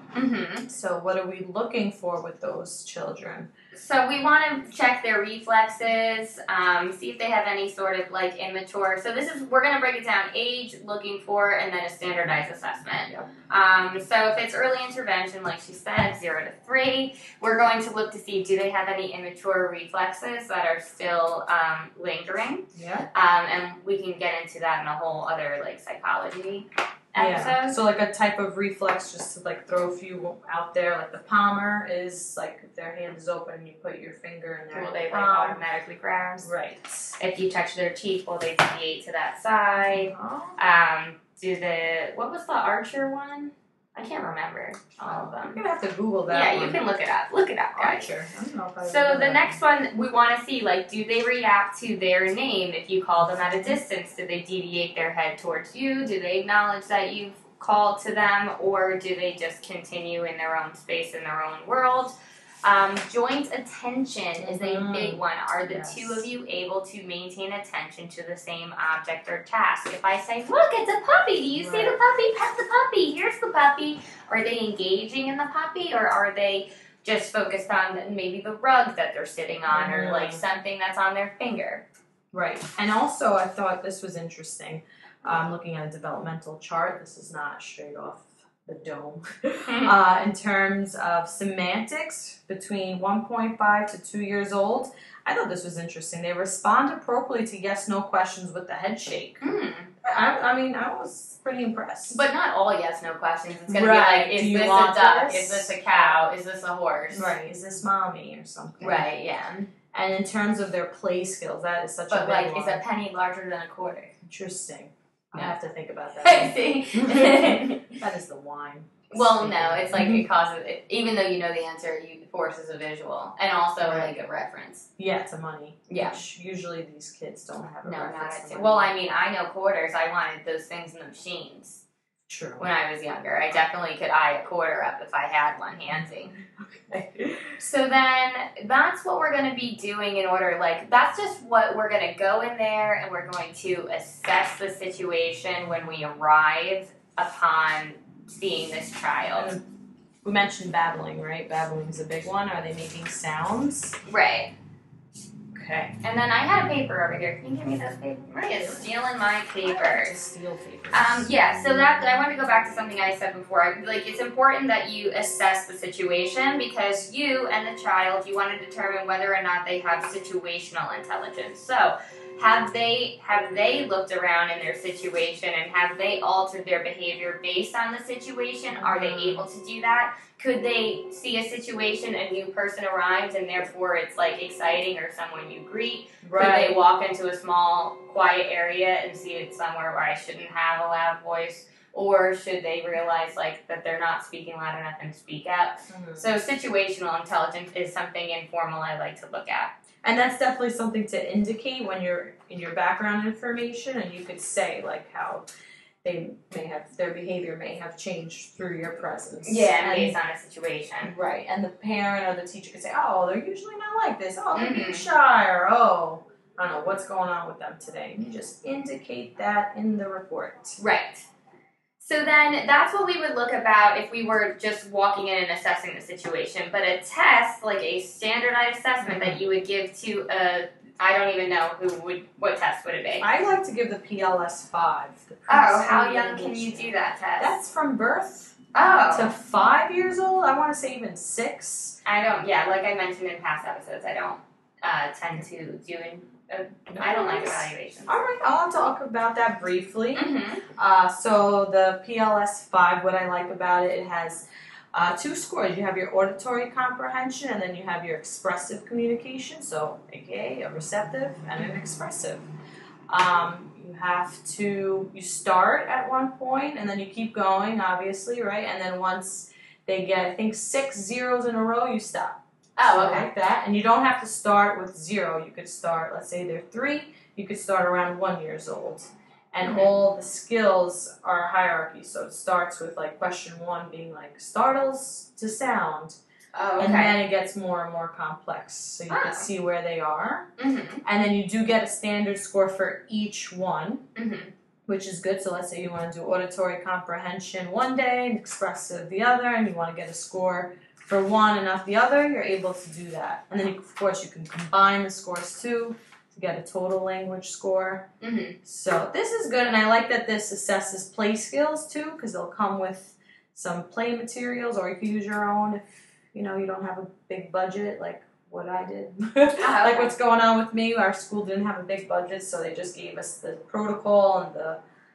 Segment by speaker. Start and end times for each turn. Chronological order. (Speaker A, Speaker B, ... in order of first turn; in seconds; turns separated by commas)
Speaker A: 0.1-0.7, Speaker B: 0.7-3.5, Speaker A: 3.7-27.8, Speaker B: 22.7-23.1, Speaker B: 27.1-35.6, Speaker A: 34.7-36.5, Speaker B: 36.4-37.1, Speaker A: 37.2-45.6, Speaker B: 39.9-40.6, Speaker B: 45.0-46.8, Speaker A: 46.3-48.1, Speaker B: 47.8-49.6, Speaker A: 48.8-81.8, Speaker B: 53.2-53.8, Speaker B: 64.4-66.3, Speaker B: 71.5-72.0, Speaker B: 79.7-80.4, Speaker B: 82.3-99.4, Speaker A: 89.7-90.0, Speaker A: 99.4-99.9, Speaker B: 100.0-102.2, Speaker A: 102.1-107.3, Speaker B: 103.7-106.2, Speaker B: 107.1-109.1, Speaker A: 108.8-109.7, Speaker B: 109.9-112.8, Speaker A: 112.1-114.1, Speaker B: 114.2-120.3, Speaker A: 116.2-118.0, Speaker A: 119.1-124.9, Speaker B: 123.8-124.1, Speaker B: 125.0-128.9, Speaker A: 125.9-126.2, Speaker A: 127.8-131.8, Speaker B: 132.3-132.6, Speaker A: 132.6-136.3, Speaker B: 135.9-137.6, Speaker A: 137.6-149.5, Speaker B: 149.3-149.6, Speaker B: 150.2-154.0, Speaker A: 154.1-154.5, Speaker B: 155.5-155.9, Speaker A: 156.0-160.2, Speaker B: 158.6-158.9, Speaker B: 159.6-161.3, Speaker A: 160.9-199.7, Speaker B: 178.7-179.4, Speaker B: 186.2-186.8, Speaker B: 195.9-196.2, Speaker B: 200.0-205.5, Speaker B: 206.0-210.1, Speaker A: 209.4-211.1, Speaker B: 211.0-220.8, Speaker A: 214.5-215.1, Speaker A: 220.8-221.2, Speaker A: 222.0-233.3, Speaker B: 229.0-229.4, Speaker B: 233.2-242.0, Speaker A: 235.5-237.6, Speaker A: 238.7-239.3, Speaker A: 242.0-248.2, Speaker B: 246.9-262.4, Speaker A: 250.1-250.6, Speaker B: 263.1-286.2, Speaker A: 272.8-273.3, Speaker A: 279.6-279.9, Speaker A: 286.5-287.2, Speaker B: 286.8-290.5, Speaker A: 289.1-289.5, Speaker A: 290.6-291.0, Speaker B: 291.0-294.0, Speaker A: 294.1-294.5, Speaker B: 294.9-308.1, Speaker A: 308.2-308.6, Speaker B: 308.6-324.8, Speaker A: 319.6-320.1